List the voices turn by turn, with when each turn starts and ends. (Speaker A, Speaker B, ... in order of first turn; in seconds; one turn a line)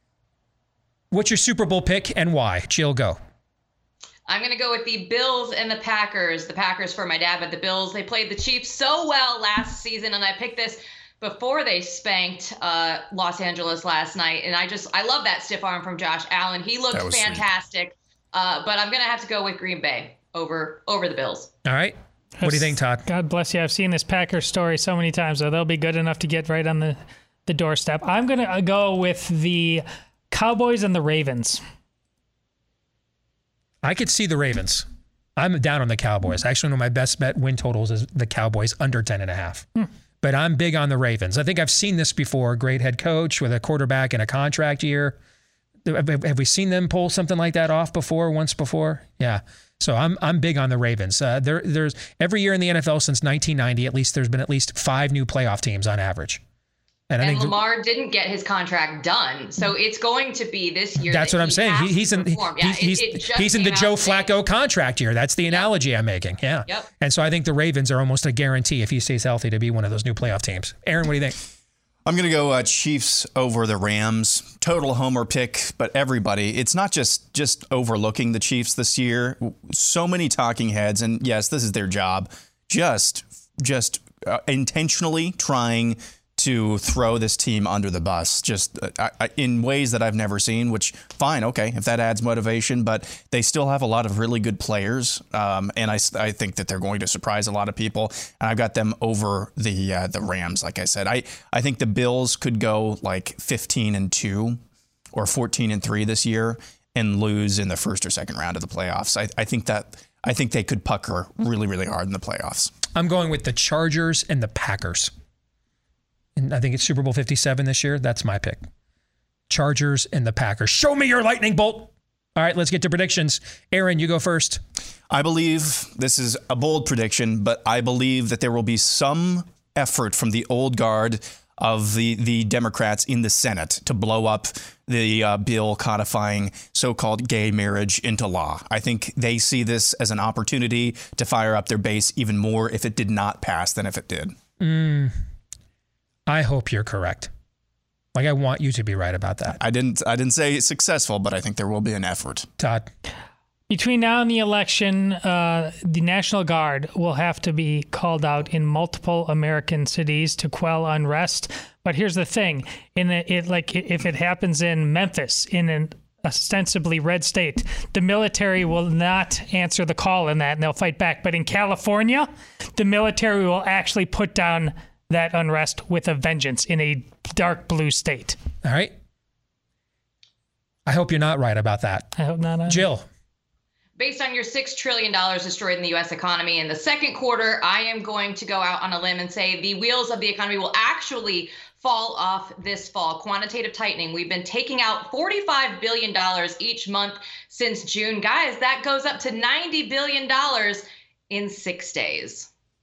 Speaker A: 1.1-3.2
Speaker B: 4.3-21.5
Speaker C: 16.9-17.5
Speaker A: 21.7-23.0
Speaker D: 22.4-31.6
Speaker A: 33.8-39.7
Speaker A: 40.2-45.2
Speaker A: 45.9-56.4
Speaker A: 57.1-57.5
Speaker B: 57.2-64.3
Speaker A: 61.0-71.4
Speaker C: 72.1-104.6
Speaker C: 105.1-112.7
Speaker A: 112.9-115.1
Speaker A: 116.4-118.6
Speaker A: 119.5-124.6
Speaker C: 125.1-144.4
Speaker A: 144.6-145.2
Speaker A: 146.3-147.3
Speaker A: 148.2-149.6
Speaker C: 149.6-152.5
Speaker A: 152.6-152.9
Speaker D: 153.7-178.4
Speaker A: 178.6-178.9
Speaker A: 180.9-182.1
Speaker D: 182.2-182.9
Speaker A: 182.7-183.1
Speaker B: 184.0-202.5